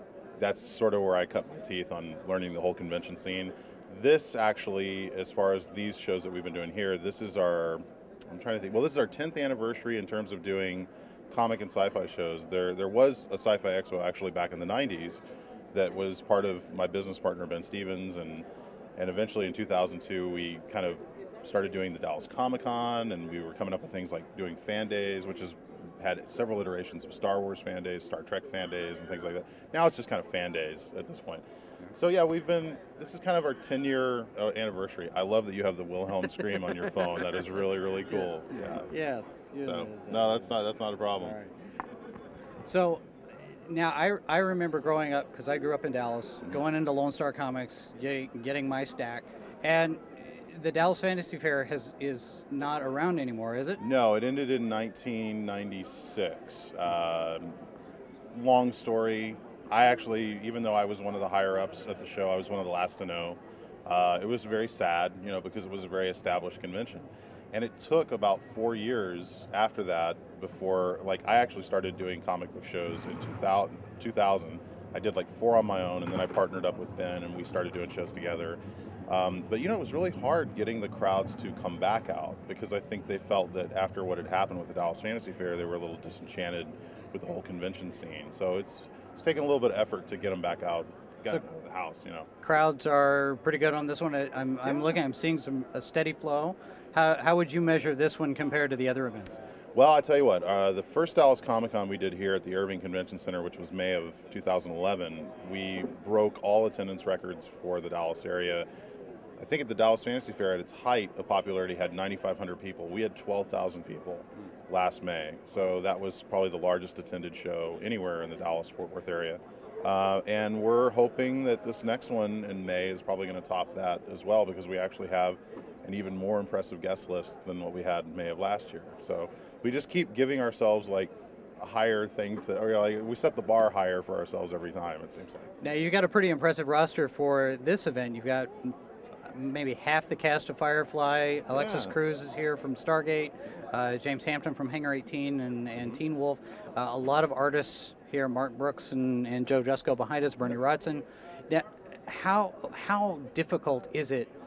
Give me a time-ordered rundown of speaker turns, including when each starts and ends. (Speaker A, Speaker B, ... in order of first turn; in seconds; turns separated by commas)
Speaker A: 0.4-38.9, Speaker B: 38.9-40.5, Speaker A: 39.6-41.4, Speaker B: 41.2-41.5, Speaker B: 42.6-53.8, Speaker A: 53.8-57.6, Speaker A: 58.3-92.3, Speaker B: 92.4-99.4, Speaker A: 99.8-108.7, Speaker A: 109.4-135.5, Speaker B: 135.6-154.3, Speaker A: 141.5-142.0